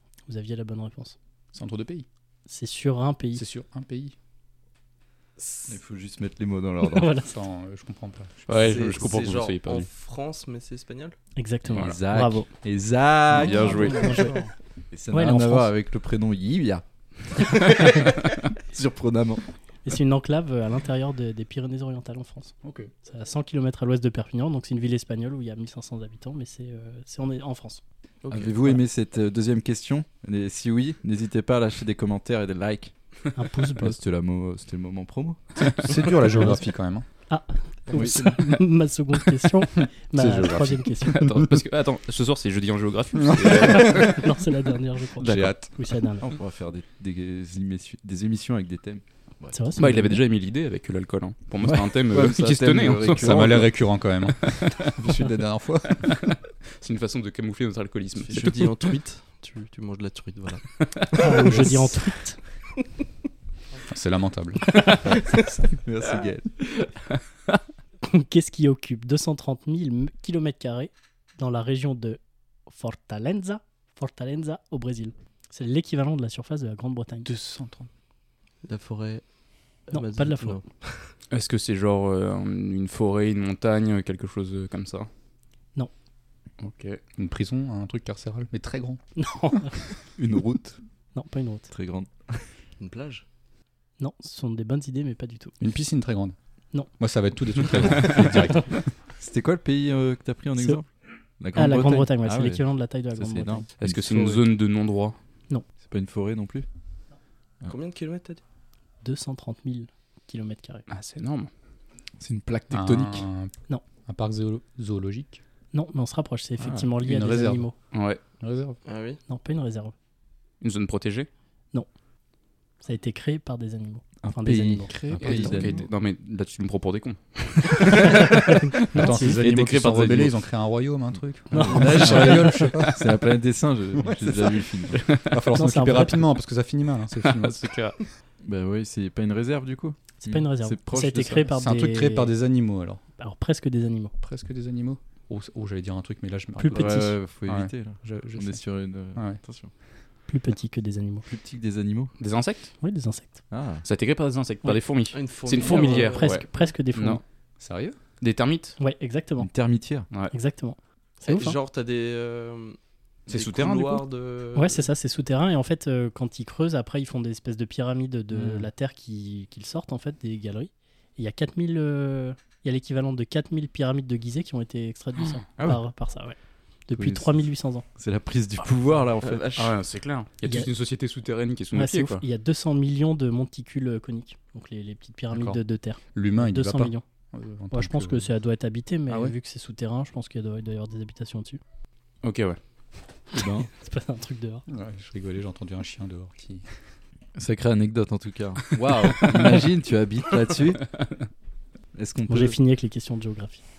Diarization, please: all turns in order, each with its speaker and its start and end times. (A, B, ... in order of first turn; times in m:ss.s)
0:00.3-0:01.2 A
0:01.5-0:02.1 B
0:02.5-0:03.4 A
0:03.4-0:04.2 B
0:05.4-0:05.7 C
0:05.7-0:07.1 D
0:06.8-0:07.4 A
0:07.3-0:08.7 B
0:08.5-0:09.9 E
0:08.6-0:11.2 C
0:11.4-0:12.5 A
0:11.7-0:14.2 D
0:13.3-0:14.3 E
0:13.4-0:14.5 A
0:14.9-0:19.4 D
0:15.1-0:15.7 A
0:17.5-0:18.0 A
0:19.8-0:27.8 A
0:22.6-0:22.9 B
0:28.2-0:28.7 C
0:28.3-0:33.0 D
0:33.4-0:34.0 A
0:33.8-0:35.5 D
0:35.6-0:37.1 B
0:37.3-0:41.2 A
0:37.9-0:38.4 D
0:40.1-0:41.6 B
0:41.0-0:44.3 E
0:43.2-0:44.3 B
0:43.5-0:46.3 A
0:45.2-0:45.6 E
0:45.2-0:45.7 B
0:46.2-0:49.7 D
0:49.5-0:50.2 A
0:49.8-0:53.7 E
0:52.1-0:53.7 D
0:53.1-0:56.4 B
0:54.4-0:54.9 E
0:56.0-0:58.9 E
0:58.2-1:01.6 C
1:01.2-1:02.4 A
1:03.9-1:05.2 B
1:05.3-1:06.5 D
1:08.0-1:17.3 A
1:17.2-1:17.9 B
1:18.6-1:19.2 C
1:19.9-1:21.1 C
1:19.9-1:20.6 A
1:21.3-1:25.1 E
1:26.6-1:27.0 E
1:27.2-1:29.0 B
1:29.2-1:29.8 A
1:30.2-1:30.8 D
1:31.2-1:31.7 A
1:31.7-1:32.5 D
1:32.8-1:33.2 C
1:34.0-1:35.6 A
1:35.6-1:36.4 B
1:37.0-1:38.8 B
1:39.2-1:44.5 D
1:41.5-1:43.7 A
1:43.8-1:45.2 E
1:45.8-1:46.7 D
1:47.6-1:48.4 C
1:49.0-1:50.9 A
1:50.9-1:51.5 E
1:52.2-1:53.3 D
1:52.7-1:53.5 B
1:54.1-1:55.4 B
1:55.7-1:57.8 A
1:56.6-1:57.7 B
1:57.9-1:58.2 E
1:58.4-1:58.8 B
1:58.8-1:59.2 C
1:59.3-1:59.9 A
2:00.6-2:01.3 E
2:02.8-2:04.9 A
2:04.2-2:05.9 D
2:05.1-2:05.9 B
2:05.2-2:10.4 E
2:07.8-2:09.4 A
2:08.9-2:13.2 B
2:11.5-2:12.7 A
2:11.6-2:15.0 D
2:11.9-2:12.9 E
2:14.0-2:17.6 B
2:14.9-2:15.3 E
2:15.5-2:16.2 A
2:17.2-2:18.0 E
2:18.4-2:21.5 D
2:20.2-2:22.4 A
2:21.5-2:23.0 B
2:23.2-2:24.1 A
2:24.2-2:28.6 B
2:26.6-2:27.2 A
2:26.7-2:29.7 D
2:29.1-2:29.4 B
2:30.3-2:31.3 A
2:31.3-2:32.1 D
2:32.2-2:32.7 E
2:32.8-2:33.4 A
2:33.5-2:33.9 D
2:33.8-2:37.2 E
2:35.1-2:36.4 C
2:35.6-2:37.2 A
2:37.6-2:38.0 B
2:38.2-2:38.8 E
2:38.8-2:39.5 A
2:39.4-2:40.1 D
2:40.2-2:41.6 A
2:41.2-2:42.8 C
2:43.3-2:44.0 E
2:43.3-2:44.9 C
2:44.6-2:56.4 A
2:48.3-2:48.7 D
2:55.6-2:55.8 D
2:56.9-2:57.8 A
2:56.9-2:59.6 D
2:59.2-2:59.8 C
2:59.6-3:02.2 E
3:00.4-3:00.7 A
3:01.7-3:07.0 A
3:05.3-3:05.6 B
3:06.1-3:08.3 B
3:07.7-3:11.6 A
3:09.1-3:09.4 B
3:12.2-3:12.6 E
3:13.3-3:13.7 D
3:13.4-3:14.6 A
3:14.7-3:16.8 B
3:17.4-3:20.9 D
3:18.9-3:19.4 E
3:21.9-3:22.6 D
3:22.3-3:23.6 A